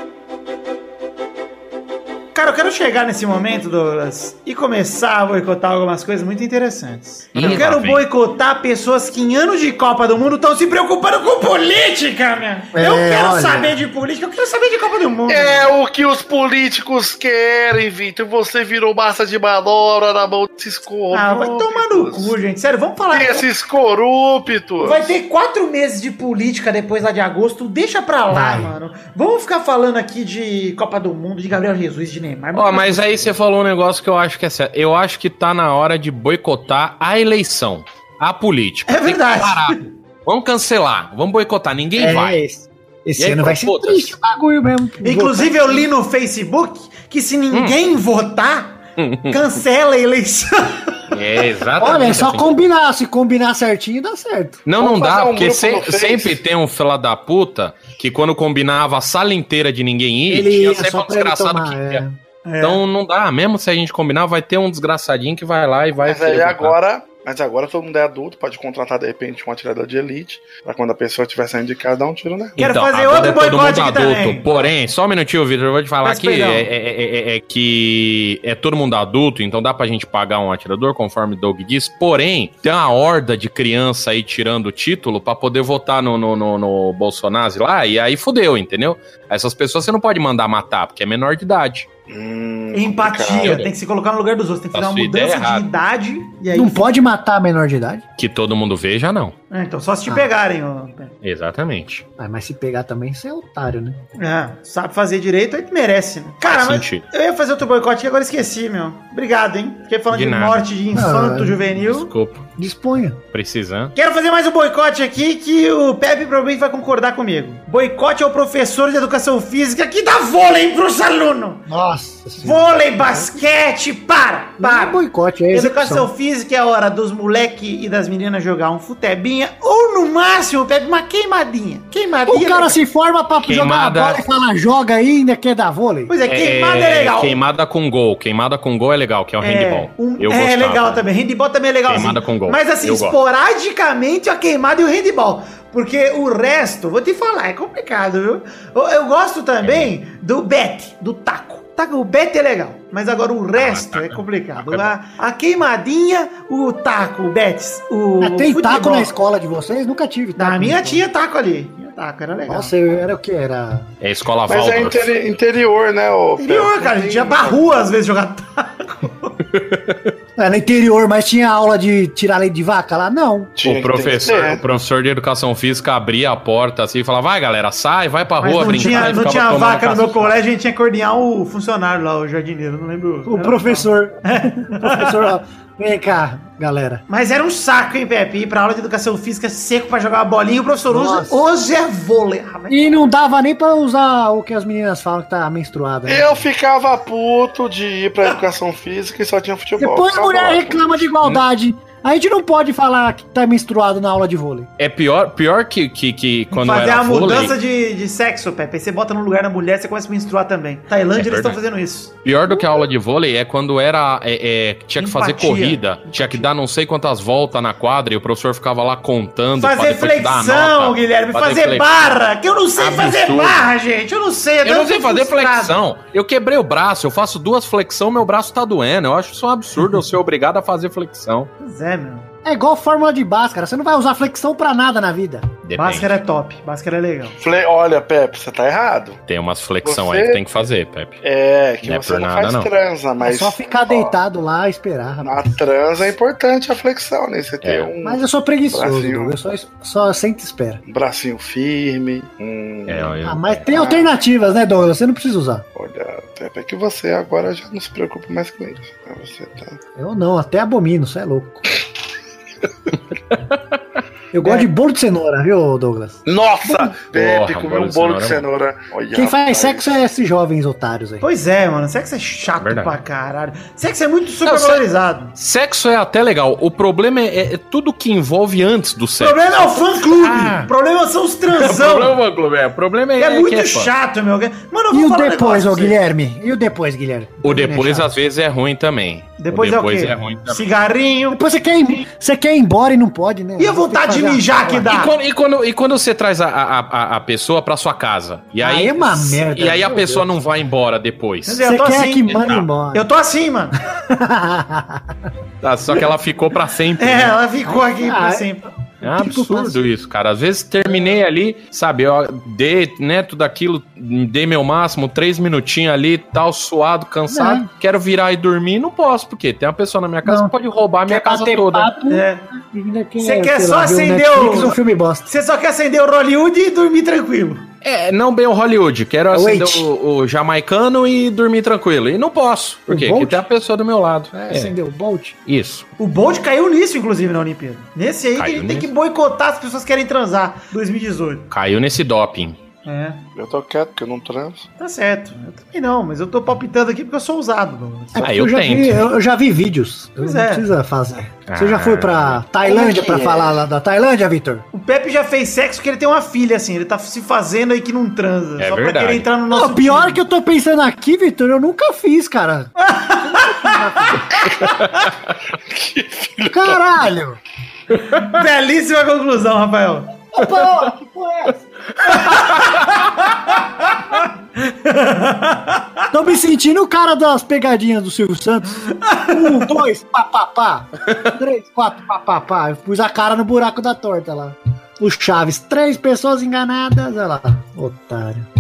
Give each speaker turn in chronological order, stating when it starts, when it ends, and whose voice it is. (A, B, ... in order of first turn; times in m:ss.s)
0:02.4-0:15.7 A
0:07.3-0:08.0 B
0:12.7-0:13.8 C
0:15.3-0:22.4 D
0:21.1-0:23.5 A
0:23.1-0:25.1 D
0:24.8-0:33.2 A
0:28.3-0:28.7 C
0:32.6-0:42.4 B
0:38.9-0:39.8 A
0:42.0-0:45.9 C
0:43.2-0:44.2 B
0:45.0-0:48.8 A
0:49.0-0:49.6 B
0:49.3-0:51.0 A
0:51.1-0:52.5 B
0:51.8-0:54.6 C
0:54.7-1:02.0 B
0:54.8-0:56.4 D
1:00.3-1:02.2 C
1:02.5-1:02.8 A
1:02.6-1:06.8 B
1:06.0-1:12.6 D
1:12.6-1:31.9 B
1:12.6-1:14.5 A
1:16.0-1:16.7 A
1:32.1-1:33.6 D
1:32.7-1:36.9 A
1:33.4-1:33.7 B
1:34.7-1:35.6 B
1:36.5-1:38.0 C
1:38.2-1:39.4 B
1:39.5-1:41.1 A
1:41.2-1:42.0 B
1:42.2-1:44.0 C
1:44.2-1:52.1 A
1:46.5-1:47.0 B
1:50.1-1:50.7 B
1:50.9-1:51.7 C
1:51.8-1:52.5 B
1:52.6-1:53.2 C
1:53.3-1:53.9 B
1:54.0-2:01.6 A
2:01.7-2:03.3 C
2:02.4-2:05.0 A
2:04.6-2:06.1 C
2:05.5-2:12.8 A
2:12.3-2:16.1 C
2:13.4-2:14.2 B
2:16.1-2:17.4 A
2:16.3-2:21.0 B
2:19.4-2:39.1 A
2:21.9-2:23.2 B
2:29.6-2:29.9 B
2:33.6-2:34.9 B
2:38.2-2:41.0 C
2:40.4-2:42.7 A
2:42.5-2:43.9 C
2:44.0-2:45.1 B
2:44.5-2:47.6 D
2:46.4-2:49.3 A
2:49.5-2:50.1 B
2:50.4-2:53.5 C
2:53.6-2:54.6 D
2:53.6-3:00.4 B
2:58.4-3:05.3 A
2:58.7-2:59.3 C
3:03.3-3:07.0 C
3:07.1-3:12.9 A
3:10.9-3:11.4 C
3:12.7-3:16.4 C
3:16.1-3:21.0 D
3:19.8-3:24.7 C
3:24.8-3:27.6 B
3:26.5-3:32.1 A
3:31.2-3:31.6 B
3:32.2-3:42.2 B
3:35.0-3:36.5 A
3:39.6-3:45.7 A
3:42.8-3:43.7 B
3:44.6-3:51.5 B
3:51.6-3:52.3 A
3:52.4-3:55.5 C
3:55.6-3:56.2 B
3:55.8-3:57.3 A
3:57.4-3:59.2 D
3:59.3-4:01.2 B
3:59.8-4:00.4 D
4:01.2-4:04.1 D
4:01.8-4:02.7 B
4:03.2-4:05.5 C
4:05.2-4:09.3 D
4:07.6-4:07.9 B
4:08.0-4:10.8 C
4:10.9-4:13.1 D
4:12.9-4:13.7 B
4:13.2-4:15.6 C
4:13.7-4:14.1 D
4:15.8-4:19.8 D
4:20.0-4:21.6 C
4:24.3-4:26.9 C
4:26.3-4:29.9 D
4:27.1-4:28.4 B
4:29.1-4:31.2 C
4:31.2-4:35.3 A
4:32.6-4:33.0 B
4:34.4-4:34.8 B
4:35.4-4:40.7 B
4:39.2-4:42.2 A
4:41.5-4:43.9 B
4:43.2-4:46.0 A
4:44.9-4:48.1 C
4:47.4-4:50.7 B
4:49.4-4:51.4 A
4:51.3-4:54.9 C
4:53.6-4:55.1 A
4:54.9-5:01.6 B
4:58.6-5:00.3 C
5:01.5-5:03.8 A
5:01.6-5:03.1 C
5:02.4-5:02.6 B
5:04.1-5:05.1 C
5:05.6-5:07.4 B
5:07.0-5:08.6 A
5:07.6-5:09.8 C
5:09.0-5:21.9 B
5:17.3-5:17.7 C
5:20.2-5:20.5 C
5:21.1-5:25.3 C
5:22.1-5:22.4 A
5:23.2-5:24.8 A
5:25.3-5:27.6 A
5:27.8-5:34.7 B
5:29.3-5:29.9 C
5:32.9-5:33.4 C
5:34.3-5:35.4 C
5:35.5-5:35.9 B
5:36.0-5:41.5 A
5:38.4-5:38.9 B
5:41.5-5:42.6 B
5:42.8-5:43.2 A
5:43.4-5:44.7 D
5:44.8-5:48.2 A
5:48.1-5:54.6 C
5:48.2-5:49.1 B
5:50.2-5:50.7 A
5:51.5-5:52.4 B
5:52.6-5:53.5 A
5:54.7-6:00.2 A
5:58.6-5:59.3 B
5:59.5-6:04.2 C
6:02.8-6:04.8 A
6:05.7-6:06.8 D
6:06.5-6:07.4 C
6:08.1-6:10.1 A
6:10.4-6:11.6 C
6:12.1-6:15.9 A
6:12.4-6:12.9 B
6:16.1-6:28.5 C
6:18.9-6:19.7 A